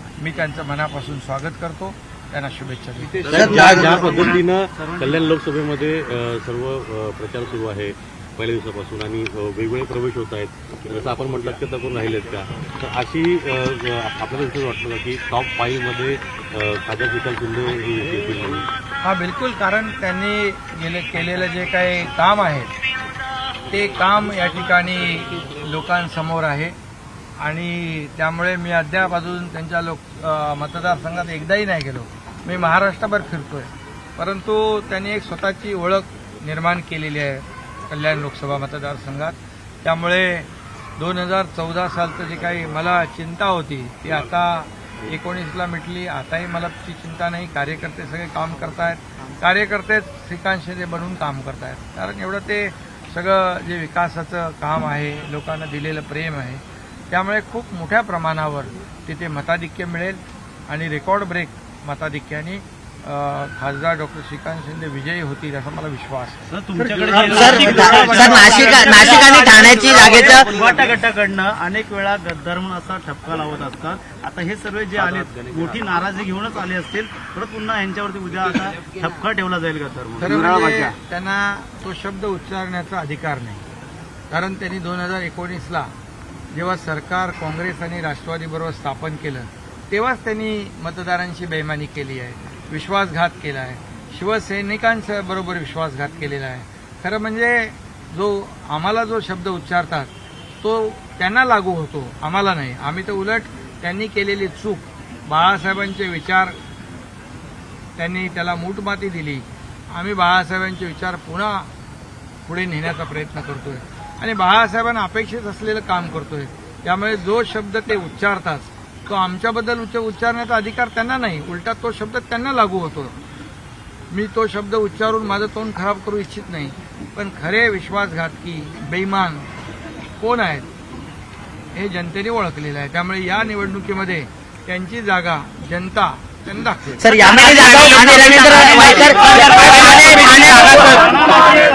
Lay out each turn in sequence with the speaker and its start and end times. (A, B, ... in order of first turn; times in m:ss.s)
0:00.2-0:03.5 A
0:03.2-0:05.2 B
0:03.2-0:18.7 C
0:19.0-0:22.7 A
0:23.7-0:26.8 A
0:27.4-1:06.4 A
1:06.5-1:21.0 B
1:07.0-1:10.6 D
1:07.1-1:08.4 A
1:20.2-1:23.6 A
1:24.3-1:25.9 A
1:26.5-1:40.1 A
1:40.6-1:46.6 A
1:48.0-1:51.7 A
1:52.4-2:03.1 A
2:04.1-2:09.5 A
2:10.2-2:10.7 A
2:11.8-2:17.2 A
2:17.0-2:21.2 D